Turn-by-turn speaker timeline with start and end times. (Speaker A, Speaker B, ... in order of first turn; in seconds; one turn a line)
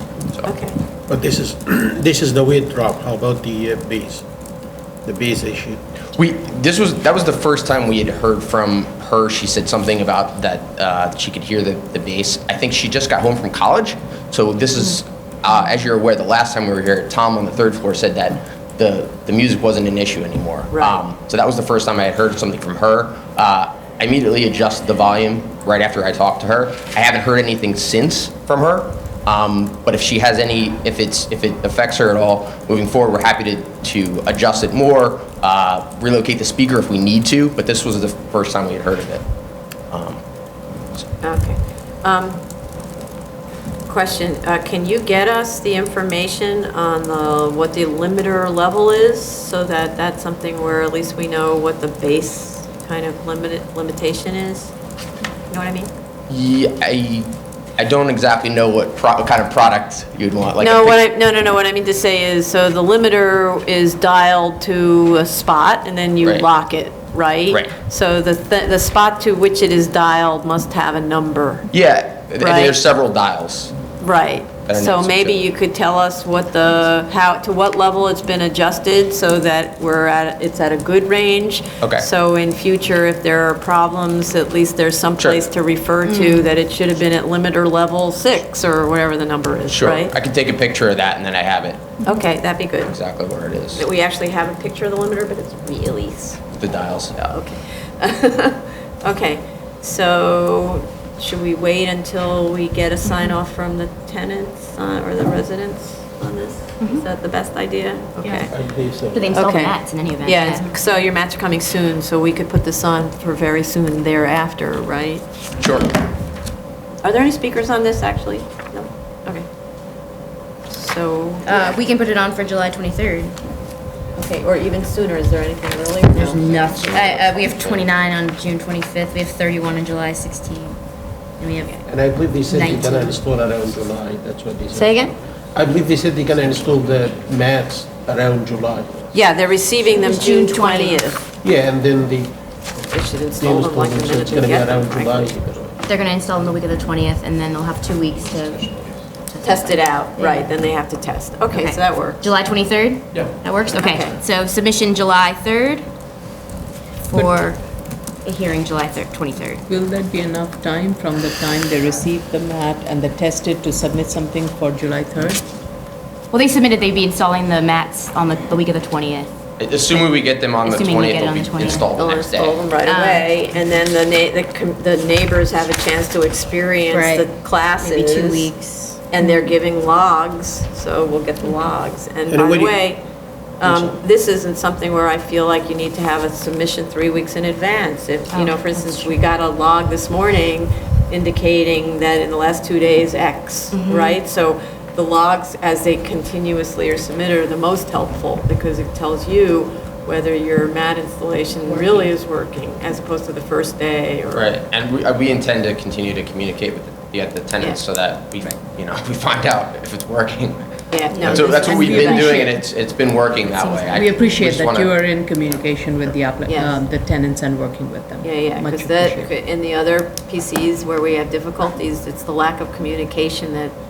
Speaker A: 0.5-0.8
Speaker B: 1.1-4.2
Speaker B: 5.0-5.8
Speaker C: 6.2-39.2
Speaker A: 20.7-21.0
Speaker C: 39.9-40.2
Speaker A: 41.2-42.4
Speaker A: 43.9-54.7
Speaker A: 55.5-55.9
Speaker C: 56.3-61.1
Speaker A: 60.6-71.7
Speaker C: 71.7-73.7
Speaker A: 72.4-72.8
Speaker A: 74.0-90.1
Speaker C: 74.7-75.4
Speaker C: 81.8-82.0
Speaker C: 85.2-85.5
Speaker D: 86.0-86.5
Speaker C: 89.7-91.8
Speaker A: 92.0-92.9
Speaker C: 92.8-93.8
Speaker A: 93.7-96.5
Speaker C: 96.5-97.2
Speaker A: 97.1-108.5
Speaker D: 103.0-103.3
Speaker D: 108.2-108.5
Speaker B: 108.5-109.5
Speaker D: 109.1-110.7
Speaker A: 109.3-115.2
Speaker C: 115.6-115.9
Speaker A: 117.0-119.4
Speaker A: 120.7-121.8
Speaker D: 121.4-123.3
Speaker A: 124.2-127.0
Speaker D: 126.1-130.8
Speaker C: 126.4-127.9
Speaker D: 131.4-131.8
Speaker B: 131.9-139.1
Speaker D: 132.5-133.2
Speaker D: 134.7-135.1
Speaker A: 139.1-141.2
Speaker D: 139.9-141.0
Speaker B: 141.4-142.4
Speaker A: 142.9-145.6
Speaker B: 143.4-145.8
Speaker D: 145.9-150.5
Speaker A: 149.4-152.3
Speaker D: 151.5-155.8
Speaker A: 153.7-154.2
Speaker D: 157.0-157.6
Speaker E: 157.1-157.5
Speaker D: 158.2-159.6
Speaker E: 159.7-165.4
Speaker D: 166.3-169.3
Speaker C: 169.6-172.6
Speaker D: 170.6-171.9
Speaker A: 171.9-178.5
Speaker D: 172.8-173.3
Speaker D: 176.9-177.3
Speaker D: 177.8-179.0
Speaker A: 179.1-183.0
Speaker B: 182.3-182.8
Speaker A: 183.6-204.5
Speaker B: 183.6-184.0
Speaker D: 188.3-189.1
Speaker D: 193.7-194.2
Speaker D: 201.7-202.1
Speaker C: 204.3-214.9
Speaker A: 210.9-212.4
Speaker D: 211.1-212.4
Speaker E: 211.3-212.6
Speaker E: 213.6-219.3
Speaker A: 216.4-216.8
Speaker A: 218.2-223.7